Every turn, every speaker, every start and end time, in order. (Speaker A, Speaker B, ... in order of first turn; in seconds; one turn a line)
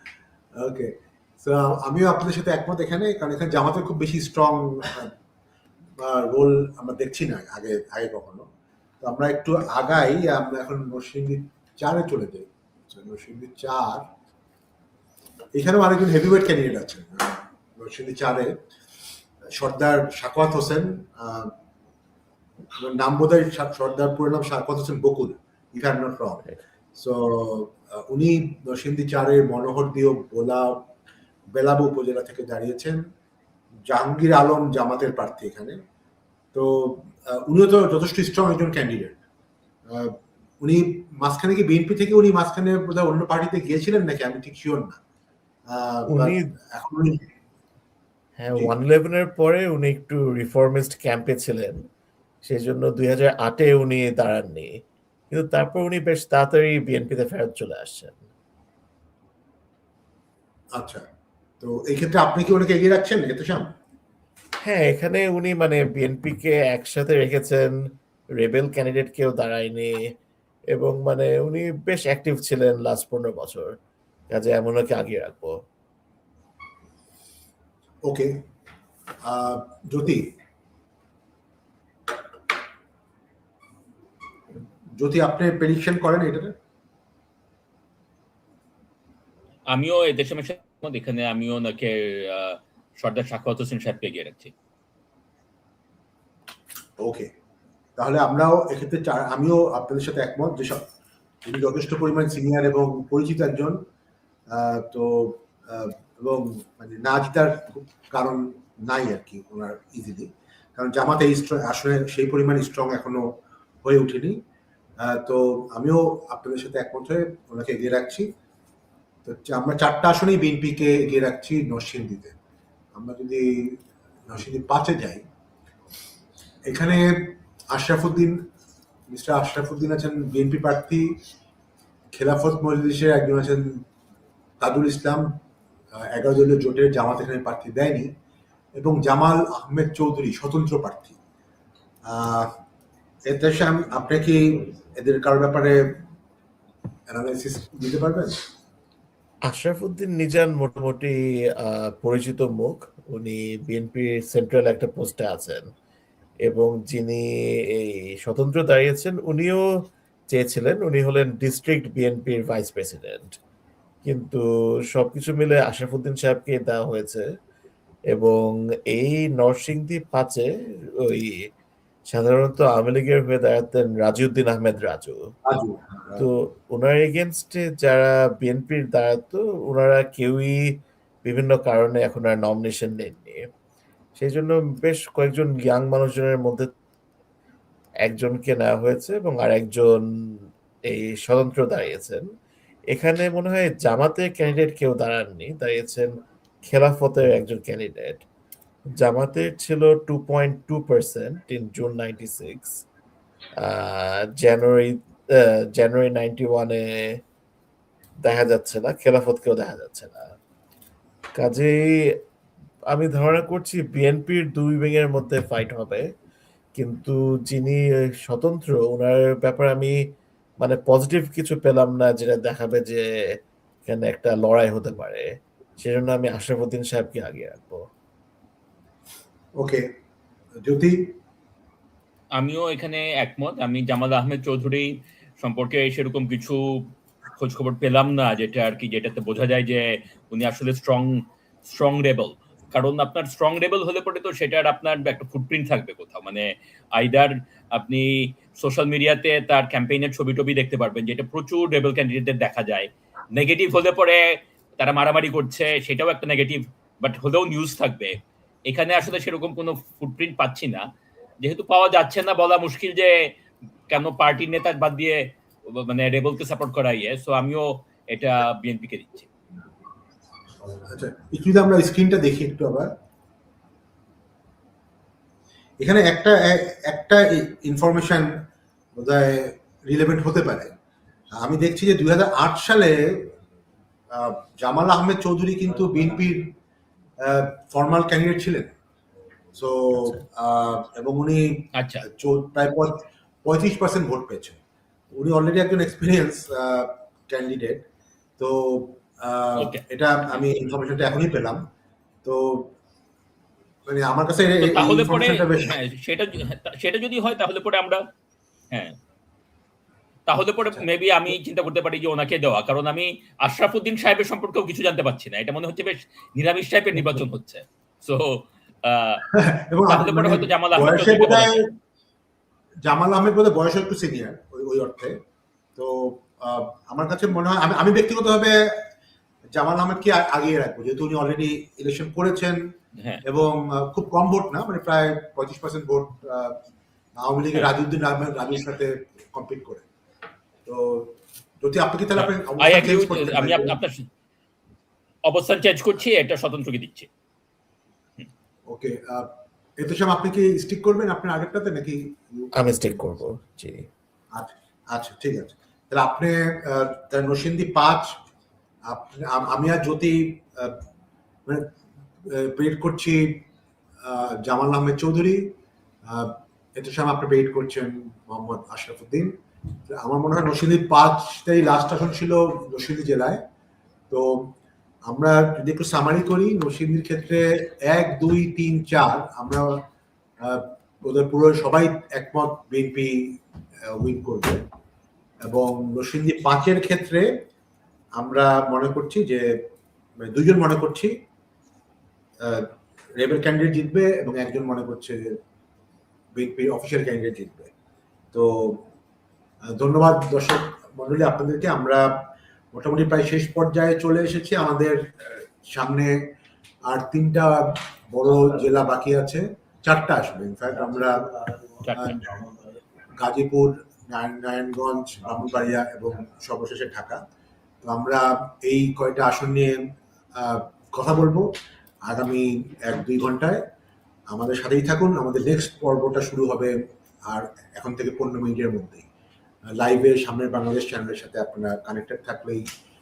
Speaker A: 0.5-5.1
Speaker A: 6.0-8.5
Speaker A: 9.0-14.1
Speaker A: 15.5-18.6
Speaker A: 19.5-21.5
Speaker A: 22.8-30.9
Speaker A: 31.5-33.0
Speaker A: 33.9-35.8
Speaker A: 36.5-39.2
Speaker A: 39.9-45.0
Speaker A: 45.7-47.3
Speaker B: 46.1-46.5
Speaker B: 48.4-51.9
Speaker B: 52.4-54.7
Speaker B: 55.3-58.2
Speaker A: 60.7-61.0
Speaker A: 61.6-63.7
Speaker B: 64.6-67.8
Speaker B: 68.4-70.0
Speaker B: 70.7-73.8
Speaker B: 74.3-75.5
Speaker A: 78.0-78.4
Speaker A: 79.2-80.3
Speaker A: 85.0-86.5
Speaker C: 89.7-94.5
Speaker A: 97.0-97.3
Speaker A: 98.0-100.8
Speaker A: 101.4-103.8
Speaker A: 104.5-114.4
Speaker A: 115.0-118.3
Speaker A: 119.2-122.3
Speaker A: 122.9-125.2
Speaker A: 126.7-128.5
Speaker A: 129.1-131.2
Speaker A: 132.1-133.8
Speaker A: 134.6-135.4
Speaker A: 135.9-138.1
Speaker A: 138.8-141.2
Speaker A: 142.0-142.5
Speaker A: 143.3-146.0
Speaker A: 147.1-148.4
Speaker B: 149.5-155.7
Speaker B: 156.4-159.6
Speaker B: 160.3-163.4
Speaker B: 164.0-167.2
Speaker B: 168.1-170.5
Speaker B: 171.0-171.4
Speaker B: 172.1-175.2
Speaker A: 175.4-176.2
Speaker B: 176.2-183.4
Speaker B: 184.2-186.7
Speaker B: 188.0-190.1
Speaker B: 190.9-192.2
Speaker B: 192.9-196.1
Speaker B: 196.7-198.2
Speaker B: 199.0-202.8
Speaker B: 203.6-207.2
Speaker B: 208.2-210.3
Speaker B: 211.3-212.2
Speaker B: 212.9-216.1
Speaker B: 216.7-220.0
Speaker B: 220.6-223.1
Speaker B: 223.8-225.3
Speaker B: 225.8-227.8
Speaker A: 229.6-229.9
Speaker A: 230.6-231.2
Speaker C: 232.3-260.8
Speaker C: 261.4-263.3
Speaker C: 263.9-269.3
Speaker A: 270.7-272.9
Speaker A: 275.8-280.7
Speaker A: 281.3-283.3
Speaker A: 284.1-286.6
Speaker A: 287.2-288.7
Speaker A: 289.5-294.6
Speaker C: 291.7-292.1
Speaker A: 295.1-297.8
Speaker A: 298.4-301.6
Speaker A: 302.2-302.7
Speaker A: 303.9-305.8
Speaker C: 304.6-308.0
Speaker C: 310.3-319.2
Speaker A: 317.0-317.2
Speaker A: 319.3-321.7
Speaker C: 319.9-321.6
Speaker A: 322.8-325.2
Speaker A: 325.8-328.9
Speaker A: 329.5-332.7
Speaker C: 333.0-333.2
Speaker A: 333.2-336.6
Speaker A: 337.1-339.9
Speaker A: 340.6-343.8
Speaker C: 342.1-344.1
Speaker C: 345.3-347.1
Speaker A: 348.6-353.0
Speaker B: 352.5-353.9
Speaker A: 354.3-358.2
Speaker A: 358.9-360.8
Speaker A: 361.4-361.7
Speaker A: 362.2-363.4
Speaker A: 364.0-369.4
Speaker A: 369.9-373.4
Speaker A: 374.1-374.5
Speaker A: 375.1-379.8
Speaker A: 380.4-384.6
Speaker A: 385.4-387.4
Speaker A: 388.1-389.6
Speaker A: 390.2-391.1
Speaker A: 392.4-395.4
Speaker A: 396.3-397.7
Speaker A: 398.3-398.8
Speaker A: 399.7-406.3
Speaker A: 406.8-412.6
Speaker C: 411.8-412.2
Speaker A: 413.1-417.2
Speaker A: 417.8-421.5
Speaker A: 422.0-423.6
Speaker A: 424.3-429.1
Speaker A: 429.8-432.7